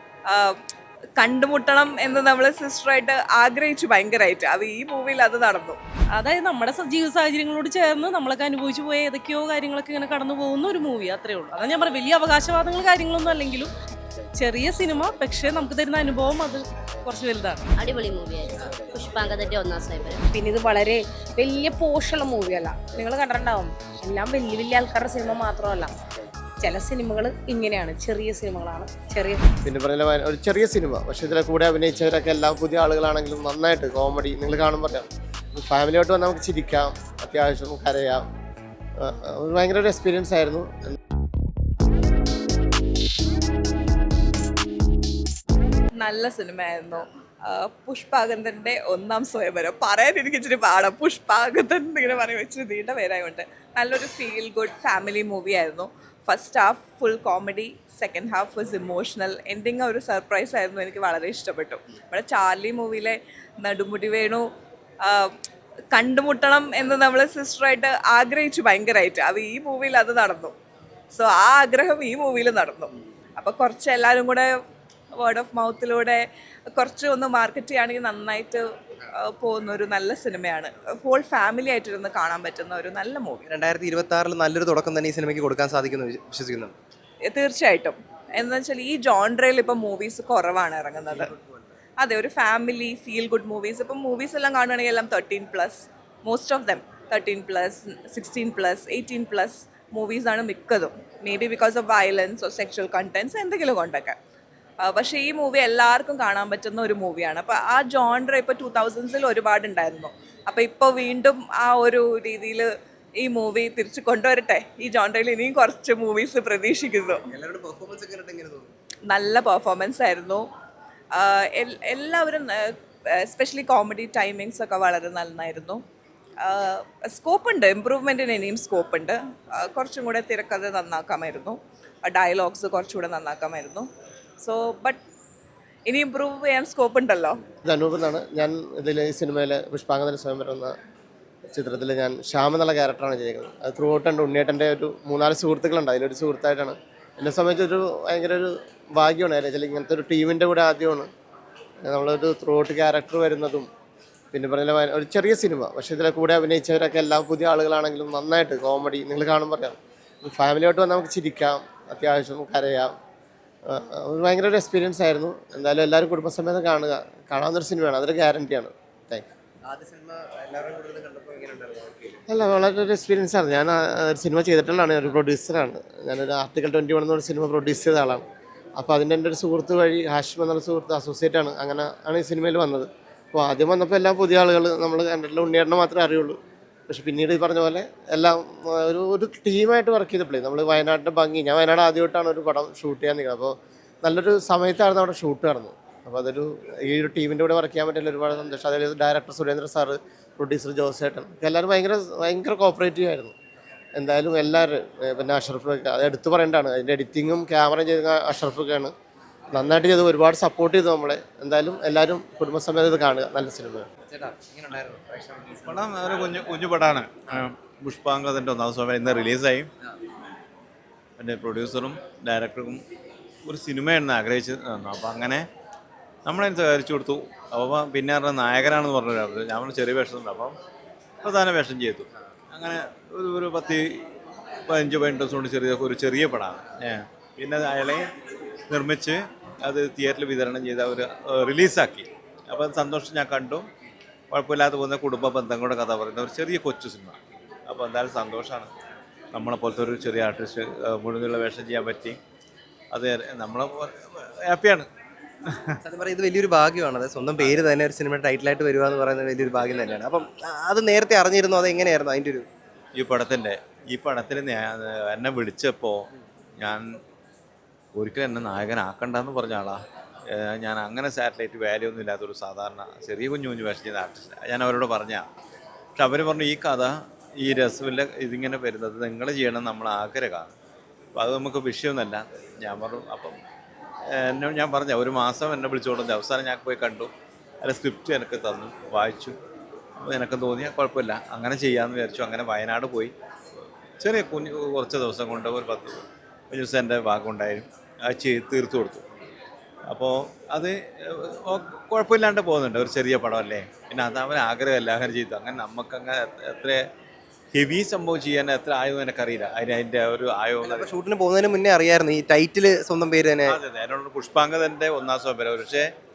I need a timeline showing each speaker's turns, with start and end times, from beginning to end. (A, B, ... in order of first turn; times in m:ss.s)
0:00.3-0:00.6 A
0:01.2-0:05.8 A
0:06.2-0:13.7 B
0:14.4-0:17.7 B
0:17.8-0:20.2 C
0:20.3-0:25.9 D
0:26.6-0:29.4 D
0:29.6-0:38.3 E
0:39.0-0:41.0 E
0:46.0-1:04.4 A
1:05.0-1:05.3 A
1:05.9-1:10.5 A
1:11.1-1:14.5 A
1:15.2-1:18.6 A
1:19.2-1:23.5 A
1:23.5-1:26.8 F
1:27.3-1:31.3 A
1:31.1-1:31.6 F
1:32.0-1:44.2 A
1:44.8-1:52.7 A
1:53.2-1:57.2 A
1:57.3-1:58.7 F
1:59.1-2:00.5 A
2:01.1-2:05.8 A
2:06.4-2:13.9 A
2:14.4-2:15.0 A
2:15.9-2:17.4 A
2:17.6-2:20.8 E
2:21.5-2:31.1 E
2:31.8-2:33.7 E
2:34.3-2:42.9 E
2:43.7-2:49.2 E
2:49.6-2:52.2 F
2:52.3-2:58.2 E
2:58.8-3:06.4 E
3:06.9-3:23.3 E
3:24.0-3:28.9 E
3:29.5-3:33.9 E
3:34.1-3:35.7 F
3:35.6-3:39.7 G
3:41.2-3:42.8 G
3:43.4-3:45.5 G
3:46.2-3:50.6 G
3:51.2-3:53.9 G
3:54.7-3:58.0 G
3:58.7-4:03.7 G
4:04.3-4:08.7 G
4:09.3-4:12.2 G
4:12.9-4:14.9 G
4:15.4-4:15.8 G
4:15.8-4:22.5 F
4:23.0-4:26.0 G
4:26.6-4:27.0 G
4:28.0-4:35.3 G
4:36.0-4:40.5 G
4:41.2-4:43.4 G
4:44.1-4:47.1 G
4:47.6-4:49.4 G
4:50.0-4:53.1 G
4:54.0-4:59.0 G
4:59.9-5:06.8 G
5:07.5-5:11.0 G
5:10.6-5:13.6 F
5:13.5-5:15.9 G